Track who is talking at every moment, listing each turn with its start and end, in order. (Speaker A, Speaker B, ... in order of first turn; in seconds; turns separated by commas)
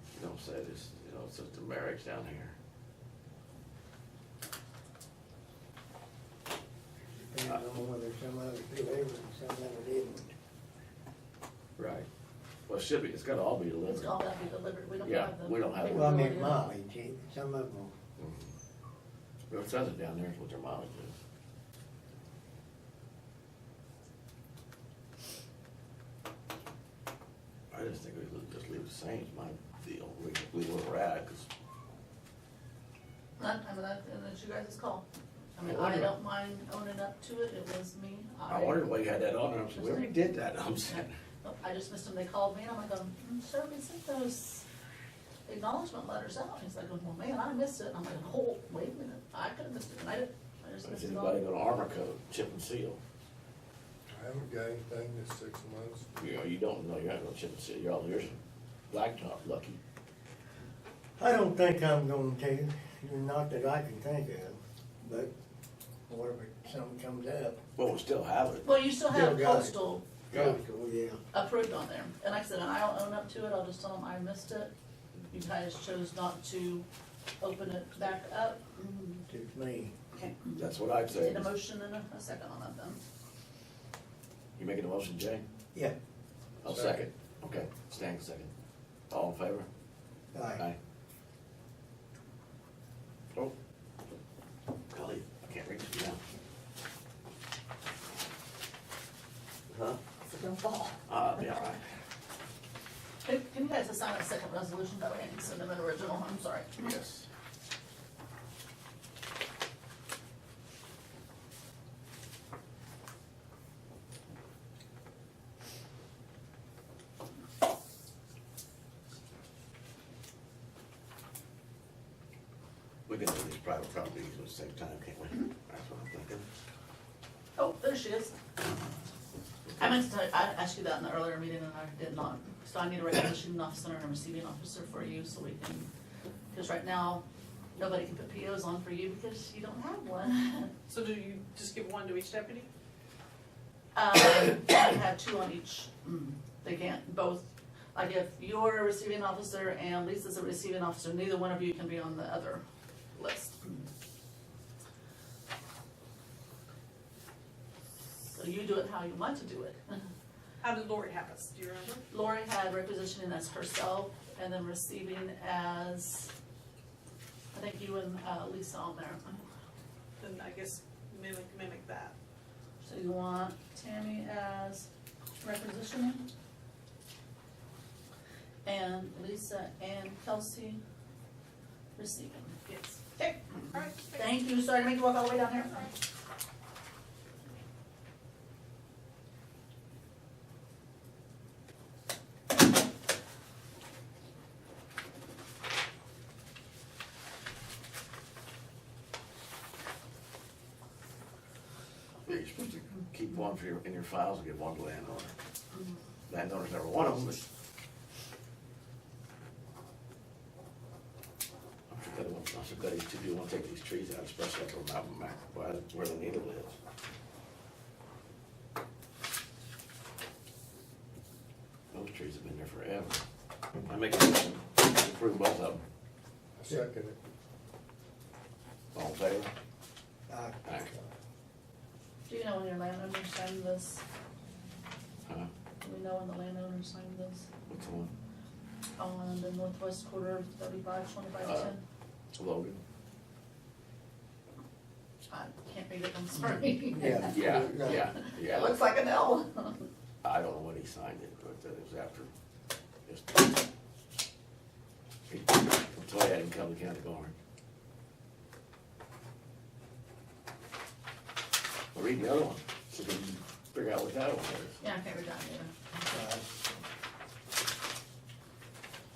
Speaker A: 0.1-2.5, Speaker B: 7.1-10.3, Speaker A: 11.8-12.1, Speaker A: 12.7-14.2, Speaker C: 13.8-16.7, Speaker A: 15.0-16.4, Speaker B: 15.8-17.9, Speaker A: 18.2-18.5, Speaker A: 19.5-21.1, Speaker A: 27.7-31.5, Speaker C: 33.4-35.0, Speaker C: 35.6-39.0, Speaker A: 35.6-36.1, Speaker A: 38.5-41.1, Speaker C: 39.7-40.3, Speaker C: 40.9-44.6, Speaker C: 45.5-51.4, Speaker A: 50.8-53.0, Speaker D: 54.1-56.1, Speaker A: 56.1-58.4, Speaker A: 58.9-59.8, Speaker B: 61.2-65.3, Speaker B: 66.1-67.6, Speaker A: 67.8-68.7, Speaker C: 68.6-70.0, Speaker B: 69.1-69.7, Speaker B: 70.3-71.2, Speaker A: 70.3-70.6, Speaker C: 71.3-74.7, Speaker C: 75.3-76.9, Speaker C: 77.4-79.2, Speaker B: 79.3-79.9, Speaker C: 80.1-83.0, Speaker A: 80.6-81.5, Speaker A: 84.6-85.4, Speaker A: 86.6-88.5, Speaker D: 86.7-87.1, Speaker A: 89.1-89.7, Speaker B: 90.3-90.6, Speaker A: 94.9-96.2, Speaker A: 99.7-100.0, Speaker C: 100.4-100.9, Speaker A: 101.1-101.8, Speaker C: 103.2-106.9, Speaker A: 106.8-107.3, Speaker A: 123.1-126.4, Speaker C: 127.6-128.4, Speaker C: 129.8-135.9, Speaker C: 136.5-137.2, Speaker C: 137.8-140.8, Speaker E: 140.9-142.7, Speaker C: 143.9-152.6, Speaker C: 153.2-153.9, Speaker C: 158.3-159.8, Speaker E: 160.6-162.1, Speaker C: 162.1-166.3, Speaker C: 167.5-169.4, Speaker E: 170.2-172.2, Speaker C: 172.8-174.9, Speaker C: 175.4-176.2, Speaker C: 178.7-180.8, Speaker C: 182.0-185.9, Speaker E: 182.7-183.0, Speaker E: 183.7-184.3, Speaker A: 202.3-205.3, Speaker A: 206.3-207.4, Speaker A: 211.9-216.8, Speaker A: 221.9-223.2, Speaker A: 223.8-225.8, Speaker D: 226.6-227.2, Speaker A: 228.9-229.5, Speaker B: 230.3-230.6, Speaker A: 230.7-230.9, Speaker C: 232.3-234.0, Speaker C: 235.8-237.5, Speaker A: 237.7-238.1, Speaker C: 239.0-241.8, Speaker A: 241.4-241.7, Speaker A: 242.3-242.8, Speaker C: 245.3-249.9, Speaker B: 246.9-248.1, Speaker A: 247.1-248.8, Speaker A: 250.2-252.3, Speaker A: 253.1-253.4, Speaker A: 255.3-257.3, Speaker A: 261.9-264.8, Speaker C: 264.8-265.7, Speaker B: 266.1-266.7